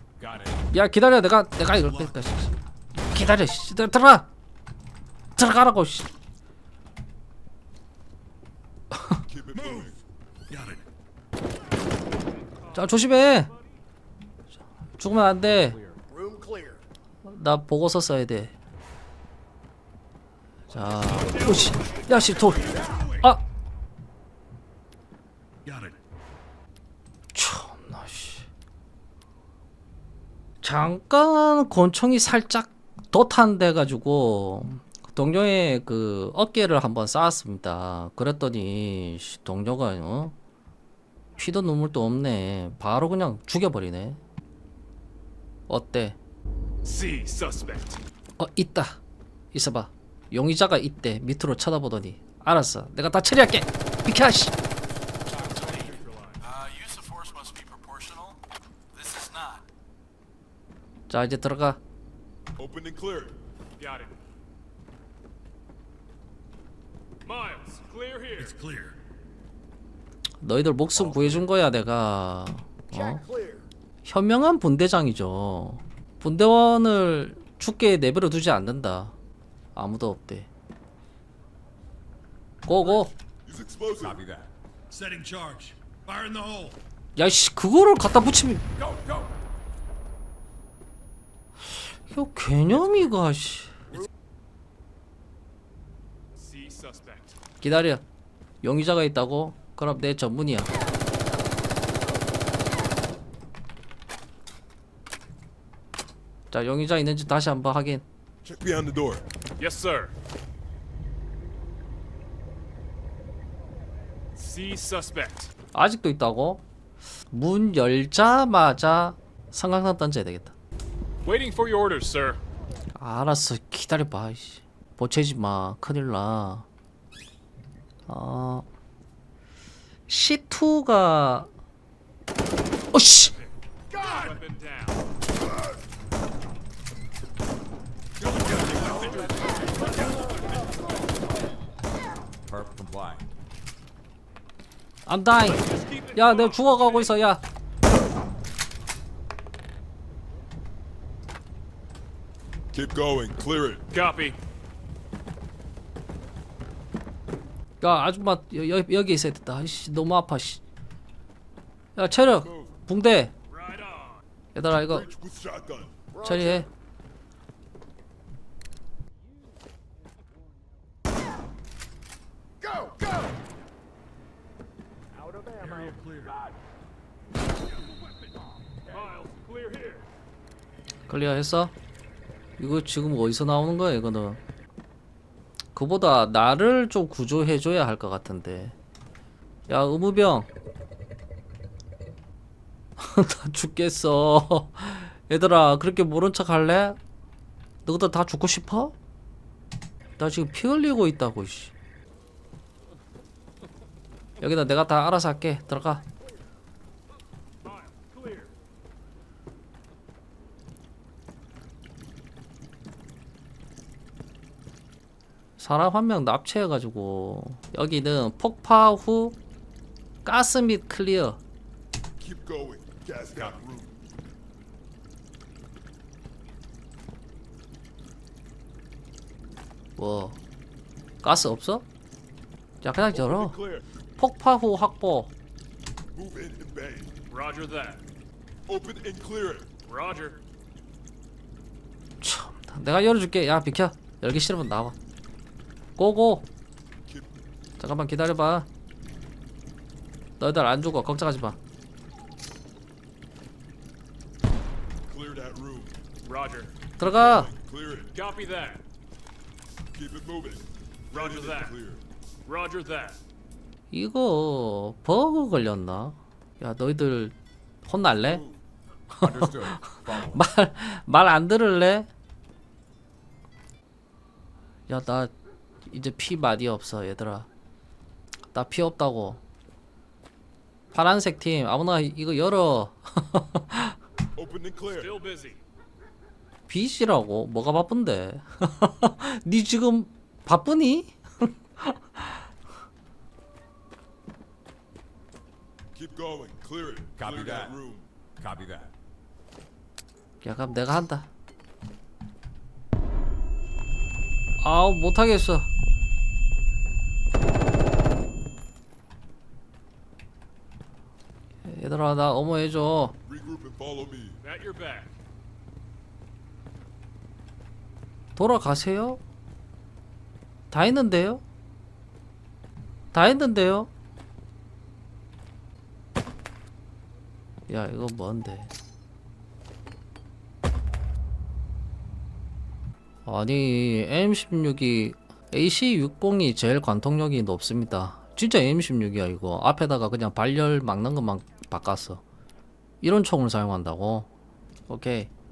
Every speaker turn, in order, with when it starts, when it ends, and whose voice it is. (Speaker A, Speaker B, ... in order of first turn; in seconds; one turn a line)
Speaker A: 0.2-0.6
Speaker B: 0.7-2.5
Speaker A: 1.7-2.3
Speaker B: 3.1-4.3
Speaker B: 5.3-6.1
Speaker C: 9.2-10.0
Speaker A: 9.5-9.9
Speaker A: 10.5-10.8
Speaker B: 12.7-13.5
Speaker B: 15.0-15.8
Speaker D: 16.1-16.8
Speaker B: 17.2-18.5
Speaker B: 20.7-23.4
Speaker E: 21.5-21.9
Speaker A: 22.9-23.2
Speaker A: 25.6-26.0
Speaker B: 27.3-28.4
Speaker B: 30.6-40.3
Speaker B: 41.4-44.2
Speaker B: 45.7-46.2
Speaker E: 46.8-48.0
Speaker B: 48.4-49.0
Speaker B: 49.5-54.5
Speaker E: 55.2-58.4
Speaker E: 58.9-59.6
Speaker B: 61.1-61.8
Speaker C: 62.6-63.4
Speaker E: 63.8-64.1
Speaker E: 67.2-68.6
Speaker A: 68.3-68.9
Speaker B: 70.4-73.2
Speaker D: 72.9-73.7
Speaker B: 74.0-79.1
Speaker B: 79.8-80.5
Speaker B: 82.7-83.1
Speaker C: 83.4-84.2
Speaker A: 84.0-86.8
Speaker B: 87.2-88.6
Speaker B: 92.1-93.7
Speaker E: 96.4-97.3
Speaker B: 97.6-98.0
Speaker B: 98.6-100.7
Speaker B: 106.5-108.0
Speaker C: 108.4-109.2
Speaker E: 109.6-110.1
Speaker E: 114.3-115.5
Speaker B: 115.7-116.6
Speaker B: 117.3-120.5
Speaker E: 121.2-122.4
Speaker B: 122.9-126.7
Speaker B: 128.1-128.7
Speaker B: 130.1-131.5
Speaker B: 132.9-133.3
Speaker E: 134.1-135.0
Speaker A: 138.2-139.3
Speaker A: 142.5-143.2
Speaker B: 145.1-147.4
Speaker E: 145.5-147.2
Speaker C: 152.7-153.9
Speaker E: 153.9-154.4
Speaker B: 157.8-160.6
Speaker B: 161.9-163.3
Speaker C: 162.4-162.8
Speaker E: 163.5-164.2
Speaker B: 164.5-165.1
Speaker C: 164.9-166.0
Speaker D: 166.1-166.7
Speaker B: 166.2-166.7
Speaker D: 172.6-173.2
Speaker D: 175.1-176.0
Speaker A: 175.6-176.3
Speaker E: 178.9-180.0
Speaker B: 181.1-181.7
Speaker B: 182.6-184.4
Speaker B: 185.7-188.7
Speaker B: 189.7-190.5
Speaker B: 193.0-197.0
Speaker B: 197.8-198.9
Speaker B: 200.2-201.7
Speaker B: 204.4-206.0
Speaker E: 207.6-208.5
Speaker B: 215.6-219.4
Speaker B: 220.2-221.4
Speaker C: 222.2-223.9
Speaker B: 230.0-230.4
Speaker B: 231.2-231.8
Speaker B: 232.8-233.6
Speaker C: 233.1-233.8
Speaker B: 234.2-235.3
Speaker C: 236.1-237.1
Speaker E: 237.3-238.0
Speaker C: 238.7-239.7
Speaker E: 239.9-240.4
Speaker B: 242.2-244.9
Speaker B: 246.0-246.5
Speaker C: 247.1-247.3
Speaker B: 247.8-248.7
Speaker B: 250.4-251.6
Speaker C: 255.1-256.0
Speaker E: 256.2-256.7
Speaker B: 257.0-257.5
Speaker C: 257.0-258.1
Speaker E: 258.1-258.8
Speaker C: 259.9-262.0
Speaker E: 261.1-261.7
Speaker E: 262.4-263.2
Speaker B: 263.9-268.4
Speaker C: 268.2-268.6
Speaker B: 269.2-269.6
Speaker A: 269.2-270.4
Speaker B: 270.2-272.1
Speaker B: 274.9-275.3
Speaker B: 275.9-277.5
Speaker B: 278.5-279.4
Speaker B: 280.9-283.9
Speaker C: 284.4-285.1
Speaker E: 285.0-285.6
Speaker B: 286.7-292.3
Speaker C: 295.9-298.1
Speaker A: 297.2-297.8
Speaker A: 298.4-298.9
Speaker B: 300.4-301.3
Speaker B: 304.6-305.7
Speaker B: 311.6-313.1
Speaker C: 313.2-314.4
Speaker E: 314.4-315.1
Speaker B: 318.4-319.2
Speaker B: 320.7-321.4
Speaker B: 323.1-323.9
Speaker B: 327.7-328.7
Speaker B: 333.2-342.2
Speaker B: 343.0-344.3
Speaker B: 344.9-345.3